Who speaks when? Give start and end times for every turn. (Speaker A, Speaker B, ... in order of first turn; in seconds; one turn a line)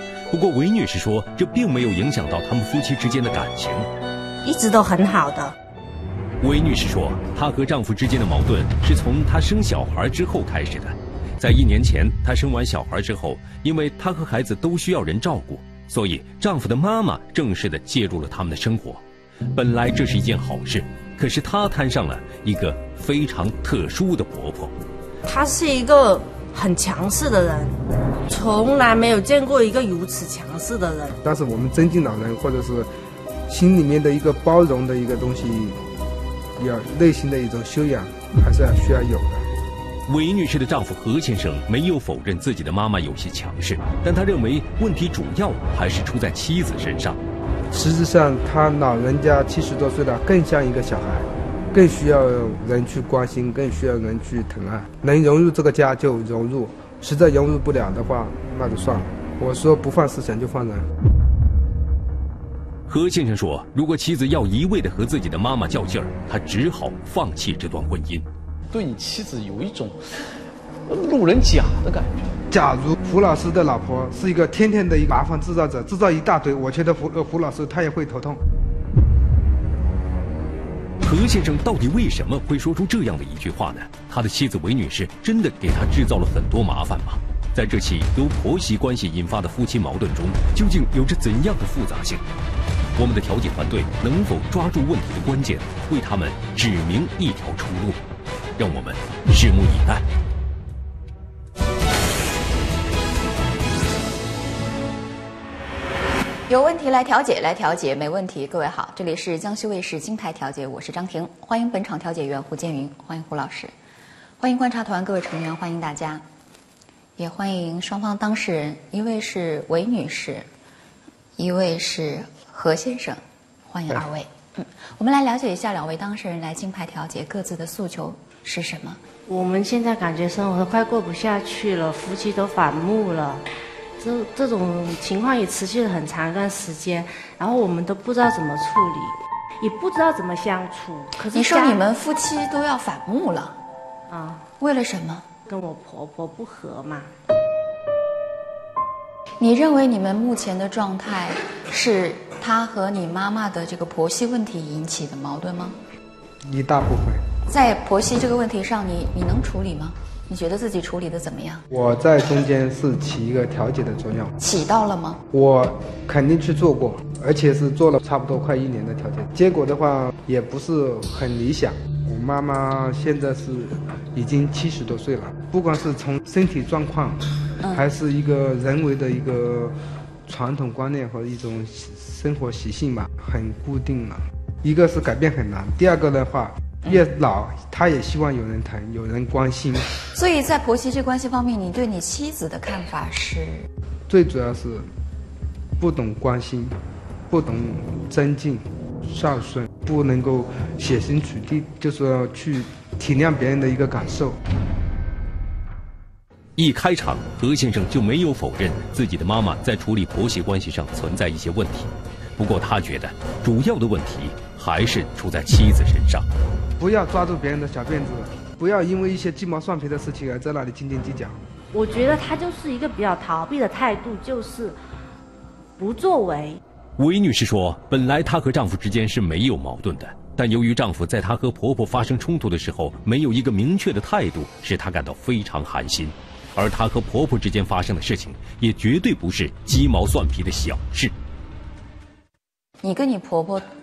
Speaker A: 0.3-3.9
Speaker B: 4.4-5.5
Speaker A: 6.4-19.0
Speaker A: 19.5-24.7
Speaker B: 25.2-31.2
Speaker C: 31.2-32.9
Speaker C: 33.5-35.8
Speaker C: 36.6-39.5
Speaker A: 40.1-47.2
Speaker C: 47.7-60.9
Speaker A: 62.9-68.3
Speaker D: 68.7-72.4
Speaker C: 72.5-78.4
Speaker A: 81.0-92.2
Speaker A: 93.0-98.0
Speaker A: 98.6-100.0
Speaker E: 106.5-113.7
Speaker E: 114.4-116.2
Speaker E: 117.2-120.5
Speaker E: 121.4-129.0
Speaker B: 129.3-133.4
Speaker B: 134.0-141.8
Speaker E: 141.3-143.6
Speaker B: 144.1-144.4
Speaker E: 144.6-145.3
Speaker B: 145.5-147.1
Speaker E: 149.4-155.8
Speaker C: 156.4-157.2
Speaker E: 157.5-161.7
Speaker C: 161.7-164.3
Speaker E: 164.4-165.2
Speaker C: 165.3-179.8
Speaker C: 180.3-189.9
Speaker E: 190.1-193.7
Speaker C: 194.1-194.9
Speaker C: 195.8-196.8
Speaker C: 197.3-204.4
Speaker A: 206.6-216.3
Speaker C: 216.8-221.4
Speaker B: 221.7-224.8
Speaker B: 225.8-226.6
Speaker A: 227.0-241.1
Speaker E: 242.8-243.7